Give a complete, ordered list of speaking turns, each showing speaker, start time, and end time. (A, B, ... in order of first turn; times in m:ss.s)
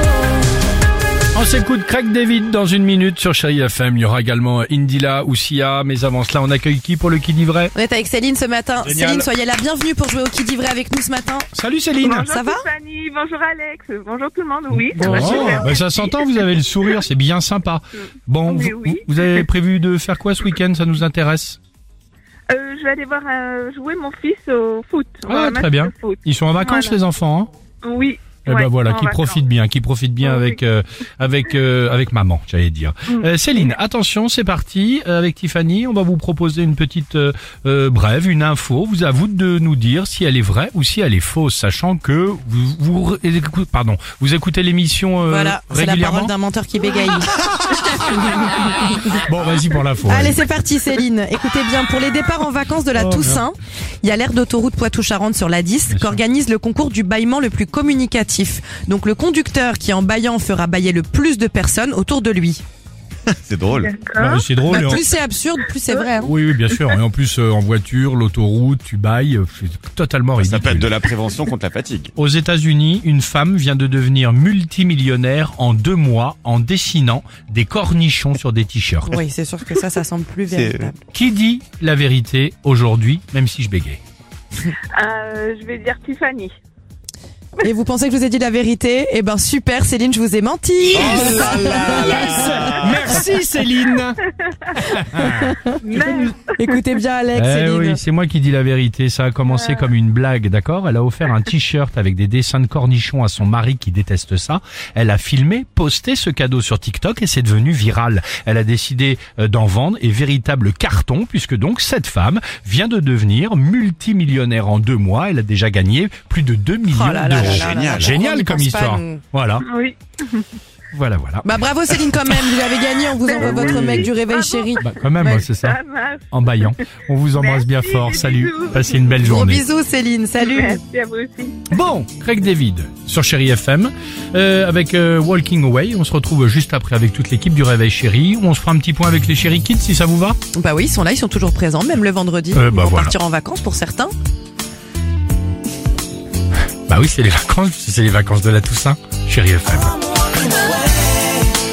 0:01.3-0:07.7 A
0:07.7-0:11.5 B
0:08.8-0:09.3 A
0:11.5-0:12.3 A
0:12.0-0:16.7 C
0:12.3-0:12.6 B
0:14.7-0:21.6 A
0:18.4-0:19.5 C
0:22.5-0:27.0 C
0:25.3-0:27.5 A
0:27.8-0:29.4 C
0:28.4-0:46.3 A
0:30.2-0:30.6 C
0:33.1-0:33.7 C
0:45.3-0:47.4 B
0:47.4-0:48.0 A
0:48.6-0:50.4 A
0:50.0-1:02.6 B
0:52.9-0:53.4 A
0:55.9-0:56.2 A
1:03.4-1:03.9 D
1:03.7-1:04.5 C
1:04.2-1:05.0 A
1:04.7-1:06.3 B
1:06.2-1:11.0 A
1:10.4-1:12.1 D
1:12.2-1:19.2 A
1:19.1-1:21.0 B
1:20.5-1:20.9 D
1:21.1-1:24.0 A
1:24.9-1:26.5 C
1:27.6-1:32.8 B
1:31.0-1:31.4 A
1:31.7-1:32.2 C
1:31.9-1:34.2 A
1:34.9-1:36.3 A
1:35.1-1:35.7 B
1:35.8-1:36.5 C
1:36.6-1:38.0 B
1:37.3-1:59.6 A
1:39.5-1:39.9 C
1:56.9-1:59.2 B
1:57.4-1:58.2 D
1:59.6-2:00.4 C
2:00.9-2:01.4 A
2:01.4-2:05.4 B
2:03.2-2:06.8 C
2:03.7-2:04.0 A
2:04.8-2:05.8 A
2:06.3-2:09.6 A
2:07.3-2:09.3 C
2:09.2-2:10.8 B
2:10.4-2:11.7 C
2:11.7-2:20.4 A
2:20.5-2:24.1 B
2:22.5-2:23.1 A
2:26.9-2:29.9 A